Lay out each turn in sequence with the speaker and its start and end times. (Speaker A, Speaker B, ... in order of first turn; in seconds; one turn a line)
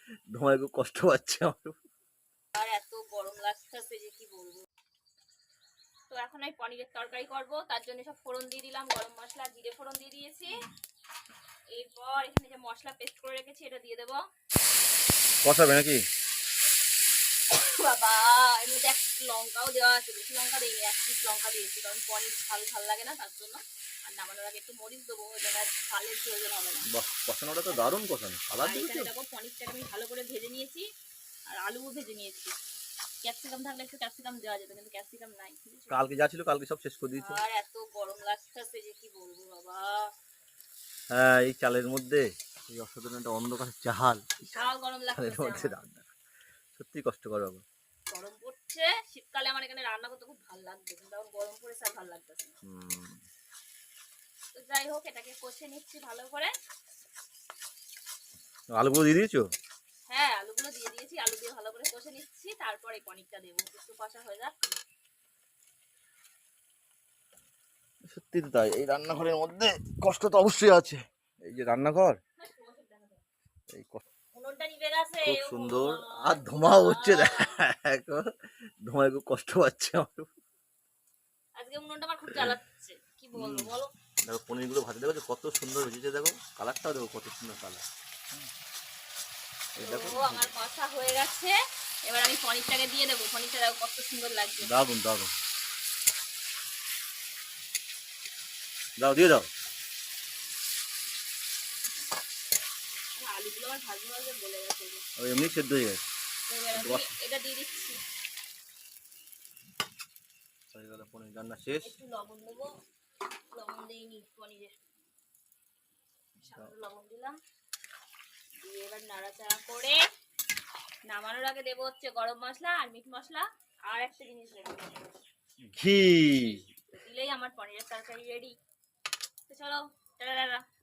Speaker A: 0.3-1.7
Speaker B: 2.5-4.7
Speaker B: 6.1-10.5
Speaker B: 11.7-14.2
Speaker A: 15.4-16.0
Speaker B: 17.5-26.9
Speaker A: 26.9-29.1
Speaker B: 28.6-30.9
Speaker B: 31.5-32.5
Speaker B: 33.2-36.0
Speaker A: 35.9-37.4
Speaker B: 37.2-40.0
Speaker A: 41.1-44.6
Speaker B: 44.5-45.8
Speaker A: 45.2-46.1
Speaker A: 46.7-47.6
Speaker B: 48.1-52.5
Speaker A: 52.6-53.2
Speaker B: 54.5-56.5
Speaker A: 58.7-59.5
Speaker B: 60.1-64.5
Speaker A: 68.1-72.2
Speaker B: 72.4-73.2
Speaker A: 73.7-74.0
Speaker B: 74.3-77.6
Speaker A: 75.2-78.3
Speaker A: 78.8-80.3
Speaker B: 81.6-83.9
Speaker A: 83.3-83.7
Speaker A: 84.3-88.5
Speaker A: 89.8-90.5
Speaker B: 89.8-91.5
Speaker B: 92.0-94.7
Speaker A: 94.6-95.3
Speaker A: 99.0-99.5
Speaker B: 103.2-105.0
Speaker A: 105.2-106.0
Speaker B: 106.5-108.0
Speaker A: 106.7-107.1
Speaker A: 110.7-111.9
Speaker B: 111.8-112.7
Speaker B: 113.5-114.8
Speaker B: 116.4-117.3
Speaker B: 118.6-120.0
Speaker B: 121.1-124.9
Speaker A: 125.7-126.6
Speaker B: 126.3-128.5
Speaker B: 129.5-130.6